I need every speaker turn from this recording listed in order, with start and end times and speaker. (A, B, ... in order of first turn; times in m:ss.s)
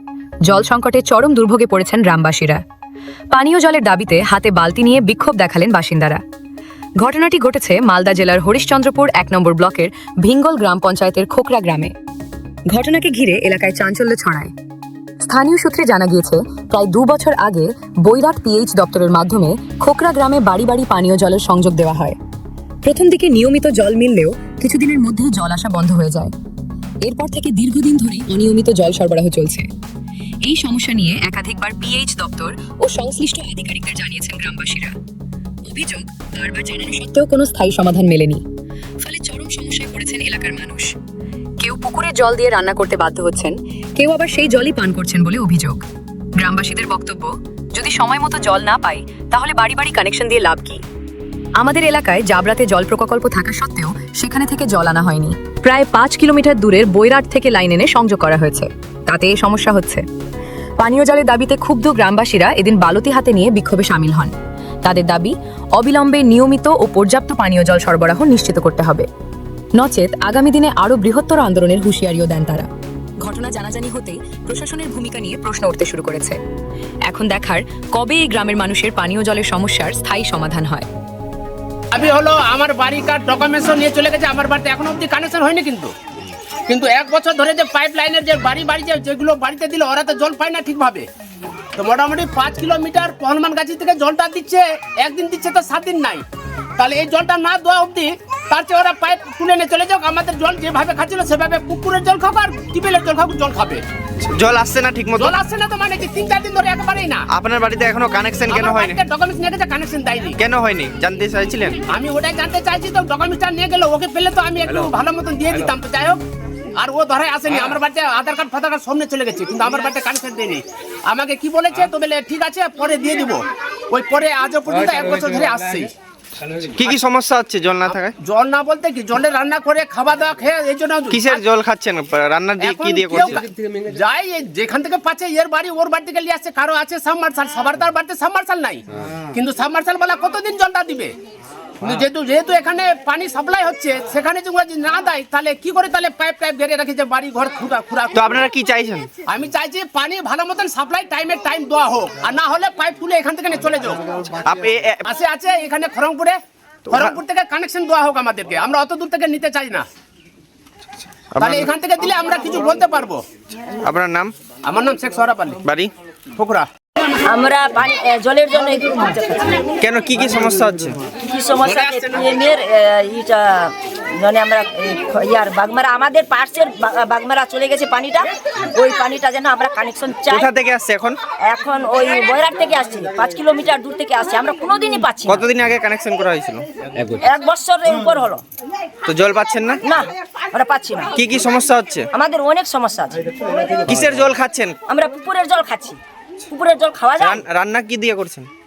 0:00.4-0:02.6 A
0:03.3-0:06.2 A
0:07.0-0:11.9 A
0:12.7-0:14.5 A
0:15.2-0:22.2 A
0:22.8-0:26.3 A
0:27.0-0:29.7 A
0:30.4-0:34.9 A
0:35.6-0:38.4 A
0:39.0-0:41.0 A
0:41.6-0:45.8 A
0:46.4-0:50.8 A
0:51.6-1:00.0 A
1:00.8-1:09.1 A
1:09.8-1:12.7 A
1:13.2-1:16.4 A
1:17.1-1:20.9 A
1:21.9-1:25.9 B
1:26.7-1:31.0 B
1:31.8-1:36.2 B
1:36.8-1:43.8 B
1:44.2-1:45.4 C
1:45.2-1:47.2 B
1:47.3-1:49.0 C
1:48.5-1:50.4 B
1:50.4-1:51.8 C
1:51.9-1:56.2 B
1:56.8-2:05.9 B
2:06.7-2:08.1 C
2:08.2-2:11.3 B
2:11.1-2:13.4 C
2:12.6-2:21.1 B
2:21.8-2:28.2 B
2:28.1-2:29.1 C
2:29.3-2:34.0 B
2:34.4-2:35.0 C
2:35.1-2:36.4 B
2:36.9-2:37.2 C
2:36.9-2:39.9 B
2:41.4-2:41.7 C
2:41.4-2:43.2 B
2:43.8-2:44.3 C
2:44.6-2:45.6 B
2:45.6-2:45.9 C
2:46.4-2:46.7 B
2:47.3-2:49.7 D
2:49.8-2:51.0 C
2:51.2-3:00.5 D
3:00.3-3:01.2 C
3:01.4-3:05.4 D
3:05.3-3:06.6 C
3:07.2-3:08.4 D
3:09.1-3:09.8 C
3:09.8-3:11.1 D
3:11.2-3:12.1 C
3:12.1-3:13.2 D
3:13.9-3:14.8 C
3:14.9-3:17.4 D
3:17.2-3:18.5 C